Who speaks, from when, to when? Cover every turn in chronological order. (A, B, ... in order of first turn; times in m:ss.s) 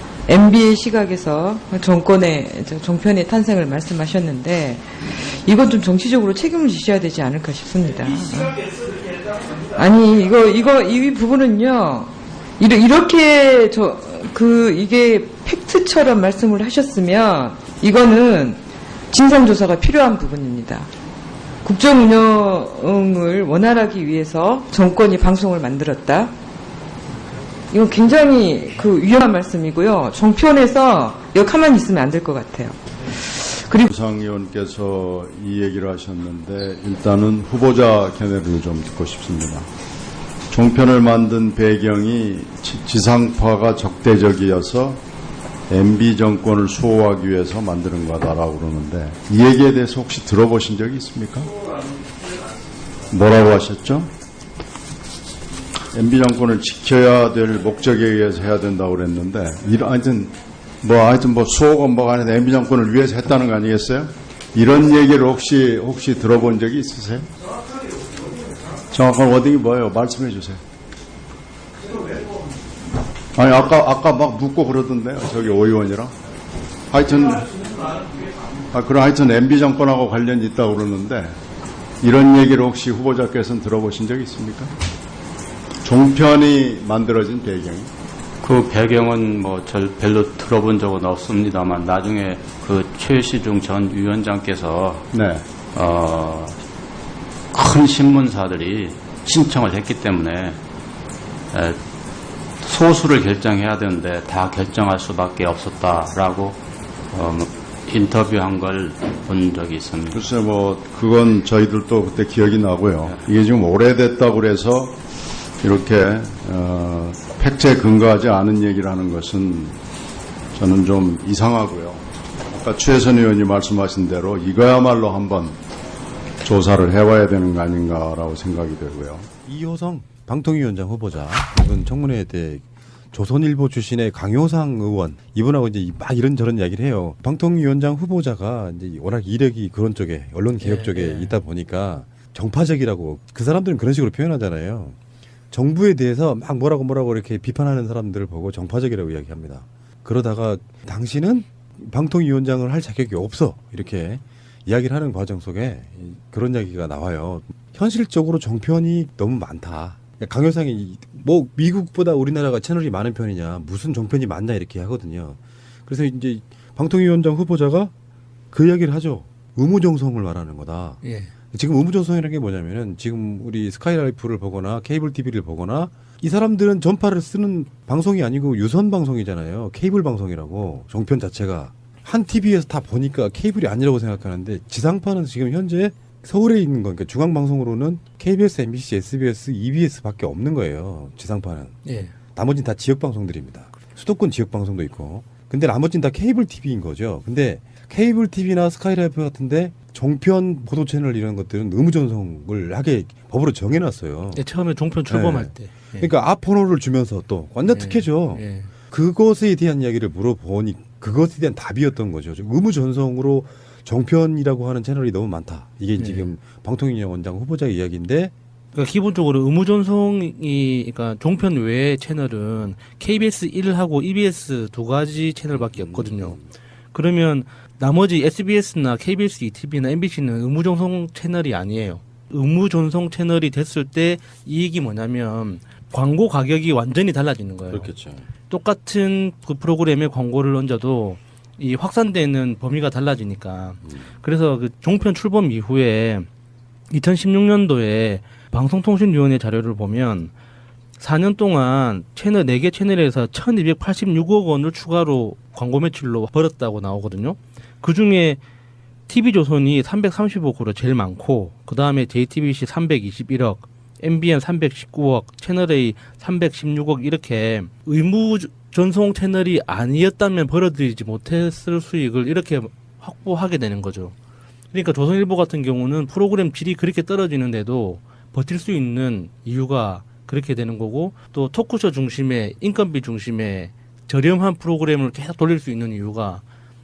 0:00.3-0:08.7 A
0:09.7-0:20.9 A
0:21.6-0:26.3 A
0:27.7-0:33.9 A
0:33.9-0:39.7 B
0:40.5-0:45.0 B
0:45.7-0:51.5 B
0:53.1-0:54.1 B
0:55.9-1:07.3 B
1:08.9-1:10.6 B
1:13.3-1:16.1 B
1:16.9-1:17.6 B
1:18.7-1:21.3 B
1:22.0-1:24.7 B
1:25.8-1:27.9 B
1:28.4-1:35.0 C
1:35.1-1:35.4 B
1:35.7-1:36.6 C
1:37.5-1:40.6 C
1:41.5-1:41.8 C
1:42.6-1:46.6 C
1:47.1-1:50.2 C
1:50.1-1:54.9 B
1:55.6-1:59.8 B
2:00.5-2:05.6 B
2:06.4-2:09.3 B
2:09.4-2:25.0 D
2:20.6-2:21.4 E
2:25.5-2:47.9 D
2:48.5-3:11.8 D
2:51.0-2:51.3 E
3:11.8-3:12.1 E
3:12.3-3:24.4 D
3:24.3-3:26.1 E
3:25.1-3:38.3 D
3:27.7-3:28.7 E
3:36.0-3:36.3 E
3:38.7-3:46.4 E
3:45.5-3:46.4 D
3:46.9-3:57.9 E
3:57.7-3:58.3 D
3:58.5-4:06.3 E
4:06.9-4:10.3 E
4:11.0-4:18.4 E
4:19.1-4:34.2 E
4:34.7-4:46.4 E